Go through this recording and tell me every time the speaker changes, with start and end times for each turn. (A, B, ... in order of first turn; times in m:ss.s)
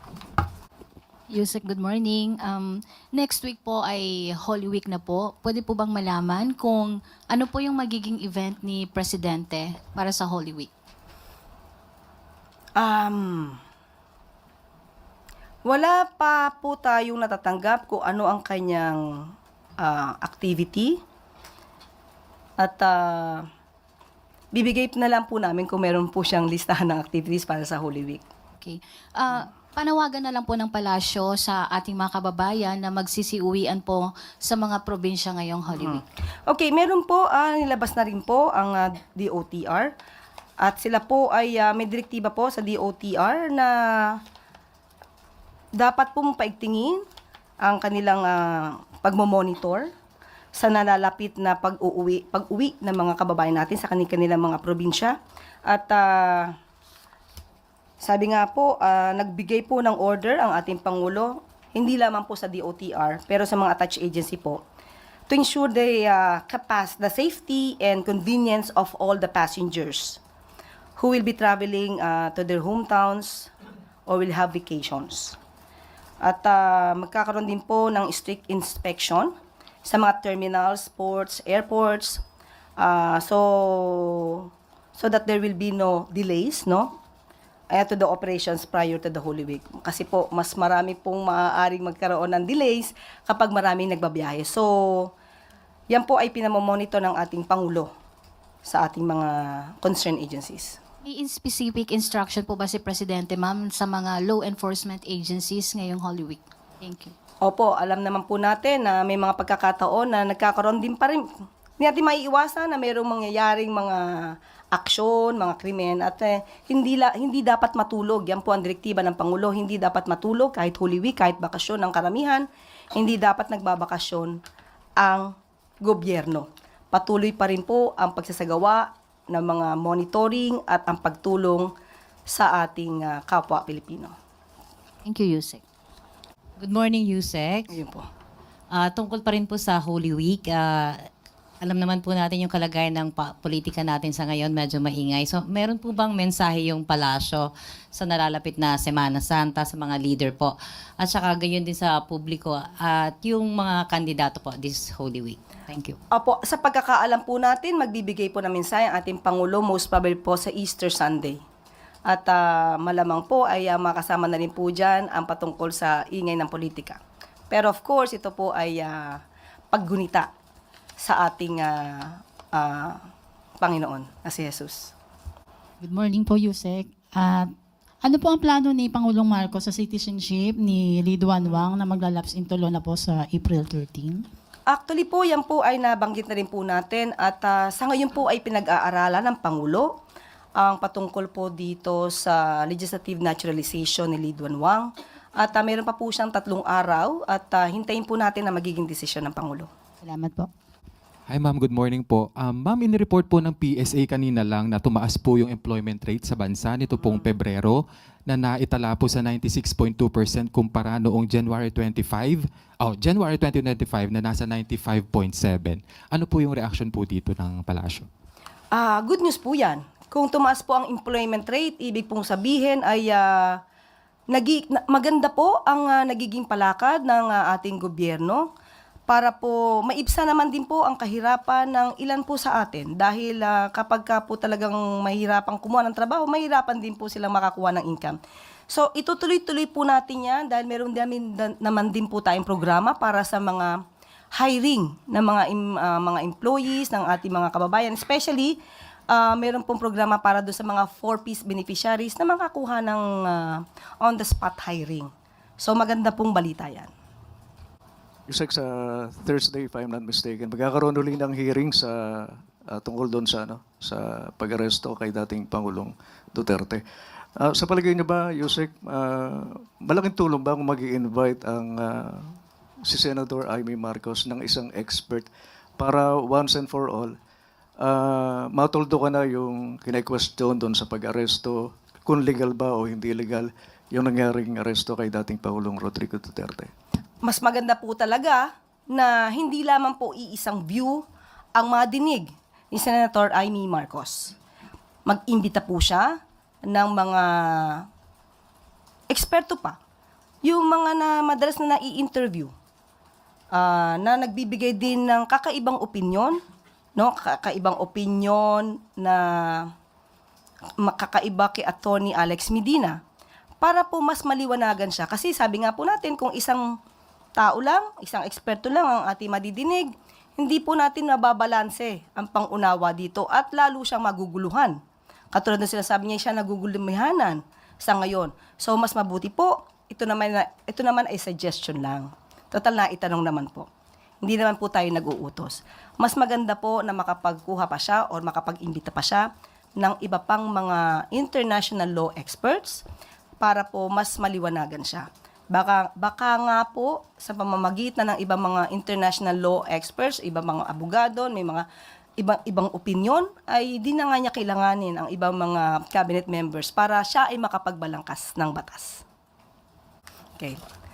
0:01.3-0:10.7 A
0:12.8-0:13.6 B
0:15.6-0:21.0 B
0:22.6-0:23.5 B
0:24.5-0:28.2 B
0:28.6-0:35.9 A
0:35.8-0:39.9 B
0:40.6-0:44.2 B
0:45.8-0:47.0 B
0:47.6-0:49.9 B
0:50.6-0:56.6 B
0:58.0-1:04.6 B
1:05.3-1:10.2 B
1:11.0-1:13.5 B
1:14.1-1:15.4 B
1:16.2-1:19.3 B
1:19.8-1:22.2 B
1:22.8-1:26.9 B
1:27.7-1:35.1 B
1:35.9-1:37.9 B
1:38.7-1:40.8 B
1:41.0-1:47.1 A
1:47.4-1:51.3 B
1:51.8-2:04.4 B
2:05.0-2:11.7 B
2:12.3-2:14.1 B
2:15.0-2:15.6 A
2:16.6-2:17.7 C
2:17.7-2:18.0 B
2:18.7-2:21.1 C
2:21.6-2:36.0 C
2:36.1-2:41.4 B
2:42.1-2:50.3 B
2:51.0-2:53.0 B
2:53.6-2:54.9 B
2:55.8-3:04.3 D
3:04.7-3:10.0 B
3:10.6-3:19.7 B
3:20.0-3:20.5 D
3:21.3-3:38.1 E
3:38.7-3:43.6 B
3:44.3-3:48.5 B
3:49.1-4:03.8 B
4:04.3-4:08.6 B
4:09.1-4:16.9 B
4:18.3-4:26.8 F
4:27.4-4:37.2 F
4:37.8-4:46.7 F
4:47.2-4:51.0 B
4:51.6-4:54.4 B
4:55.1-4:57.9 B
4:59.1-4:59.8 B
5:00.4-5:02.5 B
5:03.5-5:06.4 B
5:07.0-5:09.7 B
5:10.8-5:13.0 B
5:13.6-5:16.8 B
5:17.4-5:24.8 B
5:25.3-5:33.7 B
5:34.2-5:42.8 B
5:43.4-5:51.7 B
5:52.2-5:59.0 B